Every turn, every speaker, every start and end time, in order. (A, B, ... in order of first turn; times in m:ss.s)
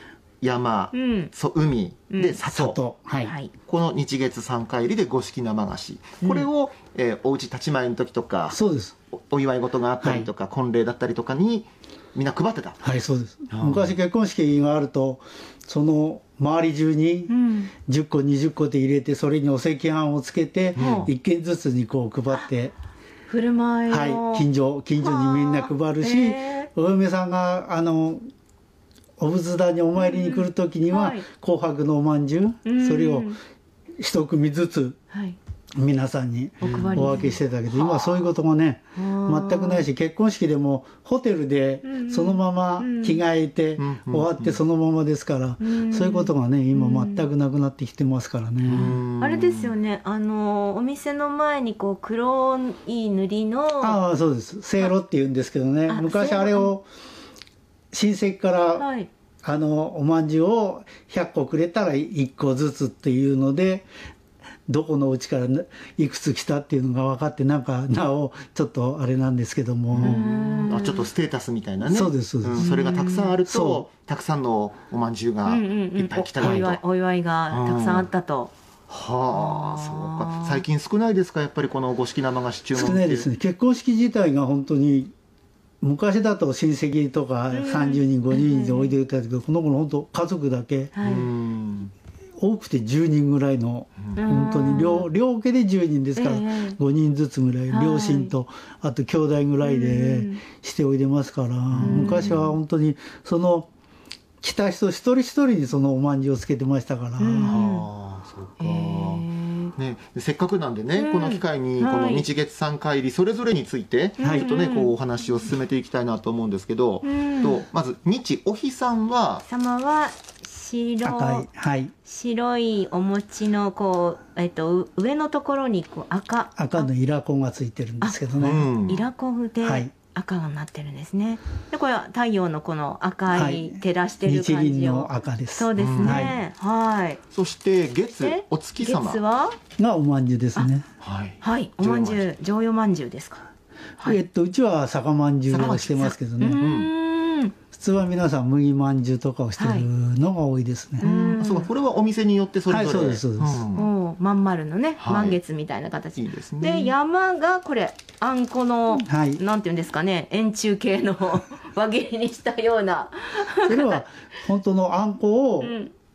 0:00.4-0:02.8 A
0:00.9-0:01.3 B
0:02.1-0:02.4 B
0:02.5-0:03.3 C
0:03.2-0:03.5 B
0:03.7-0:08.6 A
0:08.5-0:09.0 C
0:09.1-0:12.8 A
0:10.0-0:10.3 C
0:12.8-0:17.3 C
0:13.5-0:14.0 A
0:17.3-0:17.7 B
0:17.8-0:22.7 C
0:20.8-0:21.1 B
0:20.8-0:21.1 A
0:23.3-0:24.5 B
0:23.9-0:28.2 C
0:25.0-0:26.7 B
0:29.2-0:33.4 C
0:30.0-0:31.2 B
0:32.6-0:33.4 B
0:34.0-0:35.0 C
0:35.1-0:35.4 B
0:35.8-0:49.0 C
0:36.6-0:37.3 A
0:36.6-0:38.3 B
0:39.0-0:39.9 B
0:41.8-0:43.2 B
0:43.8-0:44.6 A
0:45.6-0:47.3 B
0:48.6-0:49.7 A
0:48.7-0:54.0 B
0:53.8-0:56.8 C
0:55.9-0:56.7 B
0:57.9-0:58.9 C
0:58.8-0:59.1 B
0:59.4-1:03.9 C
1:04.7-1:10.2 C
1:09.9-1:16.8 A
1:10.0-1:11.0 B
1:11.8-1:12.7 C
1:12.6-1:13.3 B
1:13.5-1:13.9 C
1:15.5-1:18.5 B
1:16.4-1:16.6 C
1:17.5-1:18.1 A
1:18.9-1:23.3 A
1:19.3-1:20.6 B
1:22.7-1:25.1 C
1:25.8-1:30.9 C
1:27.5-1:28.9 B
1:31.0-1:31.3 B
1:31.0-1:31.9 A
1:32.4-1:43.7 C
1:34.2-1:35.1 B
1:36.2-1:36.8 B
1:37.7-1:38.4 B
1:39.6-1:40.4 B
1:41.7-1:42.4 A
1:41.8-1:42.5 B
1:44.4-1:47.6 C
1:47.2-1:47.8 B
1:47.4-1:59.4 A
1:48.6-1:49.7 B
1:51.0-1:52.3 B
1:54.2-1:54.9 B
1:54.2-1:54.5 C
1:57.0-1:57.6 B
1:59.4-2:01.5 B
2:01.0-2:01.9 C
2:02.1-2:06.9 B
2:06.6-2:08.7 C
2:08.4-2:09.1 A
2:08.9-2:17.2 B
2:09.6-2:09.9 C
2:13.3-2:16.3 C
2:15.8-2:16.4 A
2:17.3-2:19.2 A
2:18.2-2:19.6 B
2:19.8-2:20.9 C
2:21.0-2:22.2 A
2:21.4-2:23.4 B
2:24.0-2:26.6 C
2:25.5-2:26.9 A
2:26.4-2:27.5 B
2:27.7-2:31.1 C
2:29.6-2:29.9 B
2:31.0-2:31.7 B
2:31.1-2:33.9 A
2:32.7-2:33.6 C
2:33.8-2:44.0 B
2:35.0-2:35.4 A
2:36.2-2:36.9 A
2:39.0-2:39.4 C
2:43.6-2:45.8 C
2:45.6-2:45.9 B